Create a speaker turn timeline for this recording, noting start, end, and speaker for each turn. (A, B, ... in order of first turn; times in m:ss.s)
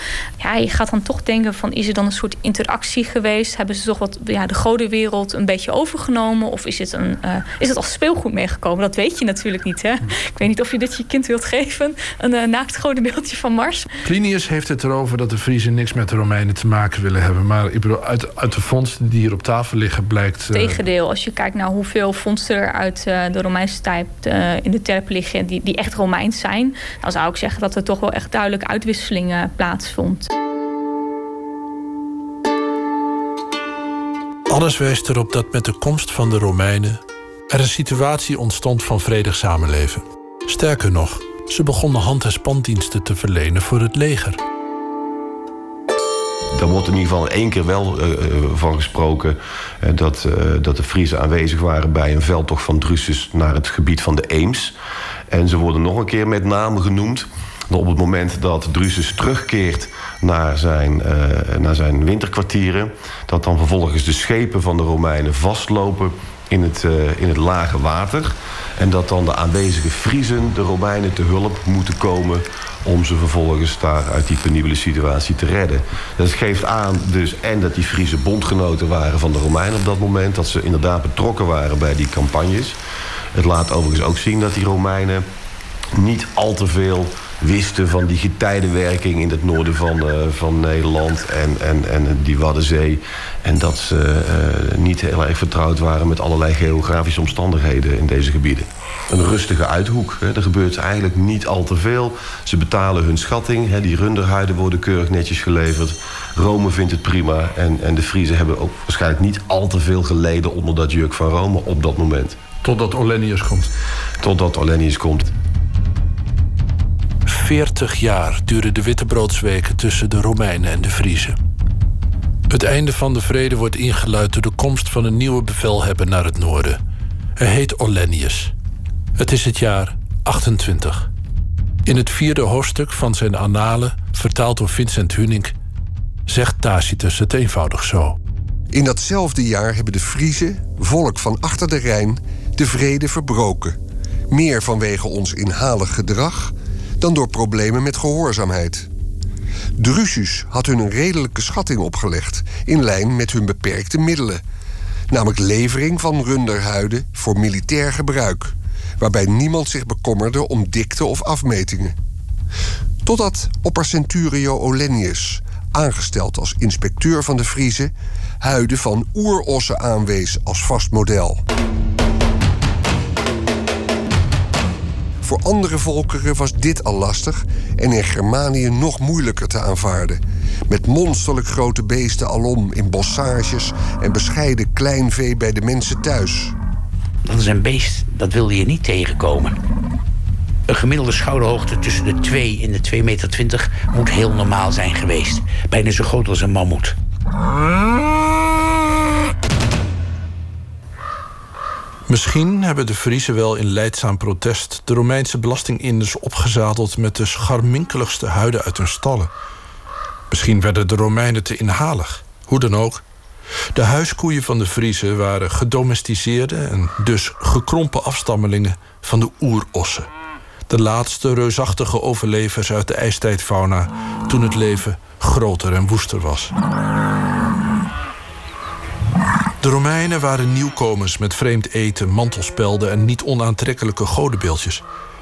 0:00.4-0:13.9 A
0:14.0-0:20.8 B
0:20.5-0:30.3 A
0:34.5-0:44.4 B
0:46.6-0:54.8 C
0:55.3-1:22.8 C
1:23.4-1:25.3 C
1:26.0-1:52.4 C
1:52.6-1:53.7 B
1:54.2-1:55.3 C
1:57.3-2:01.4 B
2:02.5-2:06.8 B
2:07.4-2:08.5 B
2:09.2-2:11.1 B
2:11.9-2:15.5 B
2:16.3-2:18.2 B
2:18.7-2:23.8 D
2:24.3-2:28.9 D
2:29.8-2:34.4 D
2:35.1-2:42.0 D
2:43.0-2:51.4 D
2:55.2-3:06.6 D
3:07.2-3:09.6 E
3:10.7-3:17.0 E
3:22.1-3:29.3 B
3:30.3-3:33.0 B
3:33.8-3:40.1 B
3:40.7-3:46.5 B
3:49.6-3:54.8 B